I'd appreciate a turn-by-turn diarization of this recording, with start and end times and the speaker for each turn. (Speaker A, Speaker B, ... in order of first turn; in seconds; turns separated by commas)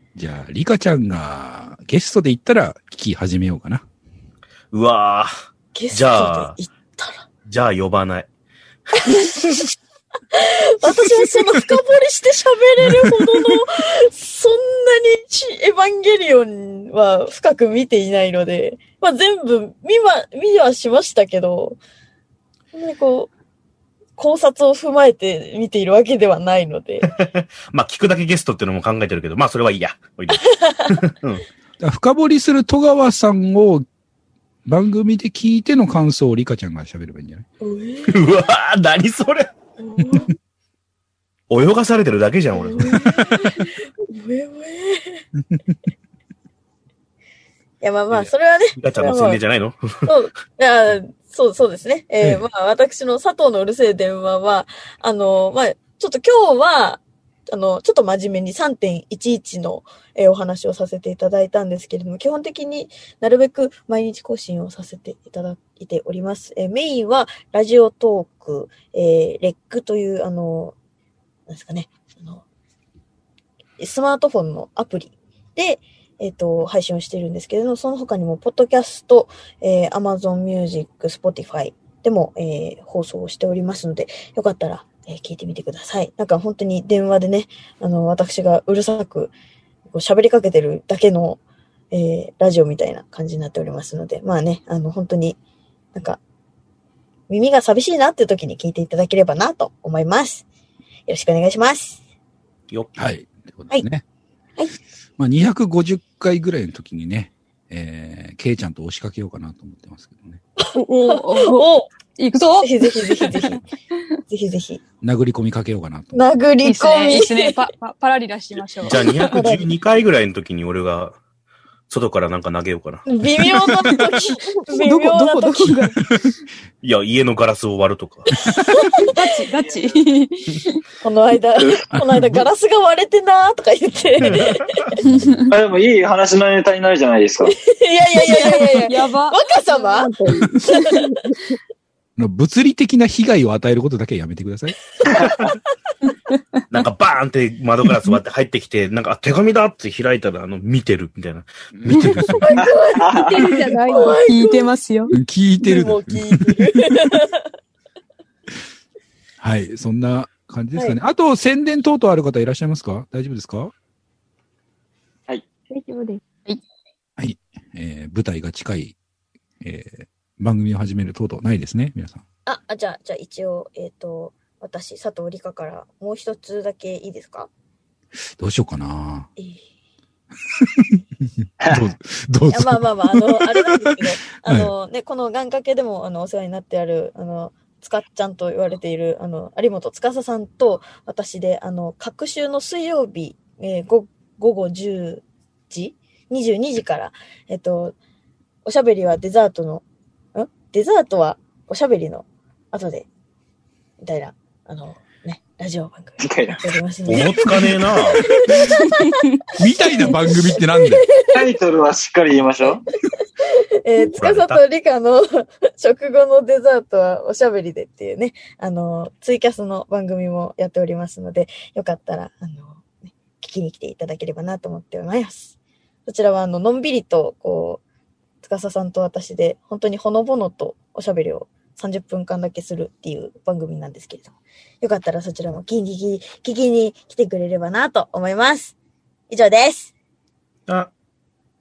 Speaker A: 0.1-3.8, Speaker B: 4.7-5.3, Speaker C: 5.7-7.2, Speaker B: 5.9-6.5, Speaker B: 7.5-8.3, Speaker C: 9.0-9.3, Speaker B: 9.2-9.6, Speaker C: 10.3-21.8, Speaker C: 22.7-23.3, Speaker C: 24.2-27.1, Speaker B: 27.0-31.4, Speaker C: 30.5-30.9, Speaker A: 31.8-33.9, Speaker A: 34.6-37.5, Speaker C: 37.6-38.3, Speaker B: 38.1-39.5, Speaker C: 39.8-40.3, Speaker B: 41.5-43.4, Speaker C: 42.5-45.2, Speaker C: 47.8-49.4, Speaker B: 48.1-50.1, Speaker C: 50.0-70.7, Speaker C: 71.5-72.4, Speaker C: 73.8-89.3, Speaker C: 89.9-91.4, Speaker C: 91.9-95.4, Speaker C: 95.9-96.2, Speaker C: 97.3-100.4, Speaker C: 101.1-102.0, Speaker A: 103.0-104.0, Speaker A: 105.2-110.4, Speaker C: 110.6-111.9, Speaker D: 110.7-113.6, Speaker C: 112.6-113.6, Speaker C: 114.3-114.8, Speaker A: 115.0-116.3, Speaker C: 116.1-117.6, Speaker D: 116.6-119.2, Speaker B: 118.8-121.2, Speaker C: 118.9-119.7, Speaker B: 121.9-123.1, Speaker C: 123.0-125.7, Speaker D: 124.0-126.2, Speaker B: 126.8-128.3, Speaker C: 128.7-129.2, Speaker D: 128.9-130.8, Speaker C: 131.0-134.7, Speaker A: 131.9-132.5, Speaker B: 134.2-134.6, Speaker A: 135.0-135.4, Speaker D: 135.2-135.5, Speaker E: 135.5-137.5, Speaker C: 137.6-140.1, Speaker D: 138.3-140.4, Speaker F: 140.3-140.9, Speaker C: 140.7-141.0, Speaker A: 142.2-144.8, Speaker E: 145.1-145.3, Speaker B: 146.7-152.5, Speaker A: 151.7-152.6, Speaker C: 152.4-154.7, Speaker E: 152.6-153.5, Speaker F: 153.2-154.2, Speaker D: 153.5-155.1, Speaker A: 155.1-157.2, Speaker C: 155.6-157.4, Speaker A: 159.4-163.7, Speaker F: 165.7-166.2, Speaker A: 167.2-168.9, Speaker A: 169.6-172.2, Speaker C: 172.4-177.5, Speaker A: 178.4-179.3, Speaker A: 180.5-181.0, Speaker E: 181.6-181.9, Speaker A: 181.7-183.5, Speaker C: 182.5-197.9, Speaker A: 184.4-184.7, Speaker C: 198.6-199.8, Speaker C: 200.3-203.1, Speaker C: 204.0-207.5, Speaker E: 206.2-206.8, Speaker B: 207.1-208.2, Speaker C: 208.1-209.2, Speaker A: 209.6-211.1, Speaker C: 210.1-211.4, Speaker E: 211.3-212.8, Speaker C: 213.8-227.8, Speaker B: 214.2-214.6, Speaker C: 228.4-238.7, Speaker C: 239.3-239.9